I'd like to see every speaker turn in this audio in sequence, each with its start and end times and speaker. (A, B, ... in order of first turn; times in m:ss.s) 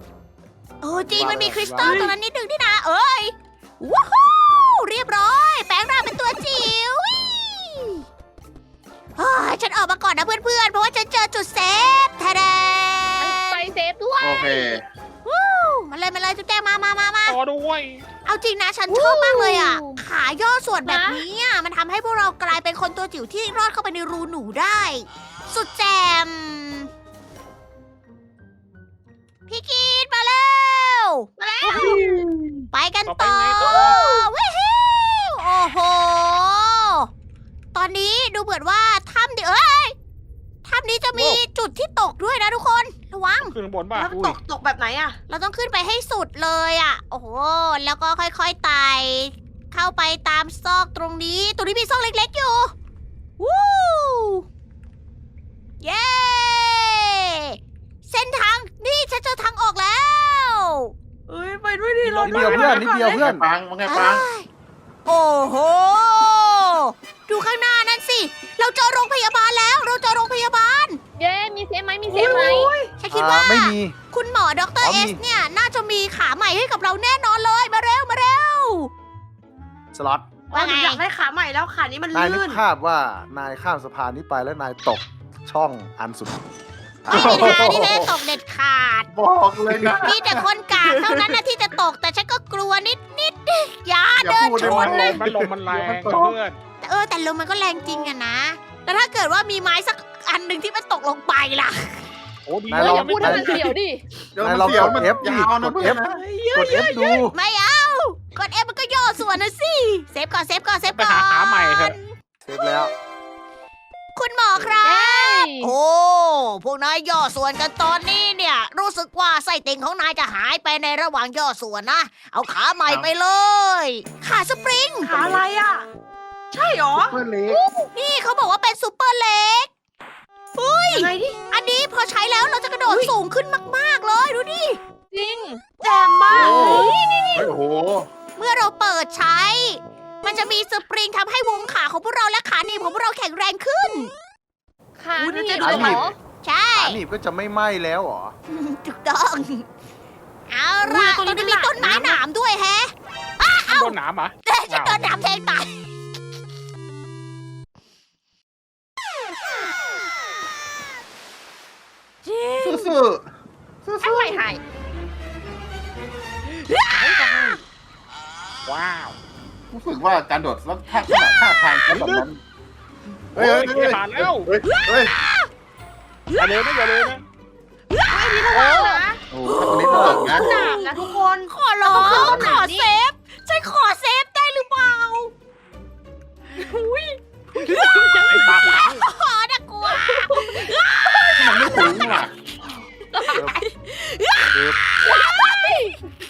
0:00.8-0:08.0 A
0:00.9-0:02.1 B
0:01.8-0:02.1 C
0:09.2-0:13.7 A
0:13.2-0:14.8 D
0:14.2-0:14.8 E
0:15.2-0:17.4 A
0:17.3-0:18.1 F
0:18.2-0:26.9 A
0:18.9-0:19.9 C
0:20.9-0:21.2 D
0:29.5-0:31.3 A
0:31.4-0:32.0 C
0:31.6-0:32.7 E
0:32.7-0:37.1 A
0:33.0-0:34.0 F
0:33.6-0:34.3 C
0:37.7-0:40.0 A
0:40.6-0:43.5 A
0:41.1-0:41.4 F
0:43.5-0:44.1 F
0:44.0-0:45.2 C
0:44.1-0:44.4 A
0:45.3-0:52.7 A
0:53.4-0:54.5 A
0:55.8-1:00.9 A
1:01.3-1:03.2 C
1:02.0-1:03.0 F
1:02.2-1:03.5 B
1:02.8-1:04.3 E
1:03.9-1:04.5 A
1:05.0-1:11.0 A
1:11.2-1:12.8 D
1:12.1-1:12.9 C
1:13.0-1:18.9 A
1:13.1-1:14.0 B
1:14.8-1:15.2 B
1:19.9-1:20.3 B
1:20.5-1:22.6 C
1:20.5-1:21.0 A
1:22.1-1:26.4 B
1:27.0-1:27.6 B
1:27.1-1:28.3 E
1:27.1-1:29.1 A
1:29.1-1:30.5 E
1:30.0-1:35.2 A
1:34.2-1:36.3 E
1:34.6-1:36.6 F
1:36.8-1:42.1 A
1:42.5-1:43.7 F
1:42.7-1:43.8 B
1:42.8-1:44.0 D
1:44.3-1:46.2 E
1:44.4-1:46.0 B
1:45.9-1:46.7 C
1:46.4-1:52.1 A
1:46.5-1:47.4 B
1:50.9-1:52.0 F
1:52.4-1:52.9 B
1:54.1-2:05.3 A
1:54.8-1:55.8 D
2:05.0-2:05.9 C
2:05.1-2:05.4 E
2:06.5-2:07.2 C
2:07.0-2:07.6 E
2:07.5-2:07.8 D
2:07.9-2:09.7 A
2:10.5-2:14.8 A
2:10.9-2:11.4 C
2:12.9-2:13.1 C
2:15.1-2:15.6 D
2:15.8-2:16.9 C
2:16.3-2:17.5 A
2:16.3-2:18.1 E
2:18.4-2:24.1 A
2:25.0-2:26.1 D
2:25.2-2:26.2 C
2:25.6-2:26.1 B
2:26.4-2:27.0 A
2:26.8-2:28.4 B
2:28.5-2:29.7 A
2:30.5-2:35.8 A
2:30.8-2:32.2 C
2:33.7-2:35.0 F
2:42.2-2:43.0 A
2:42.6-2:43.3 E
2:43.8-2:44.5 E
2:44.0-2:44.6 C
2:46.6-2:47.2 A
2:46.9-2:47.6 E
2:48.6-2:49.2 F
2:49.7-2:52.4 E
2:51.1-2:51.4 A
2:51.9-2:52.2 F
2:53.4-2:54.5 F
2:53.4-2:55.2 E
2:54.7-2:55.5 A
2:56.3-2:57.1 A
2:56.4-2:57.2 F
2:57.9-2:58.4 A
2:58.0-2:59.2 C
2:58.5-2:59.0 D
2:59.3-3:00.7 E
2:59.5-3:05.3 A
2:59.8-3:02.9 C
2:59.8-3:00.3 B
3:02.0-3:02.6 E
3:06.6-3:08.6 C
3:07.6-3:12.2 A
3:08.2-3:09.0 F
3:09.9-3:12.0 C
3:11.4-3:12.3 E
3:13.3-3:13.6 B
3:13.5-3:16.0 A
3:14.5-3:14.8 B
3:15.0-3:16.0 D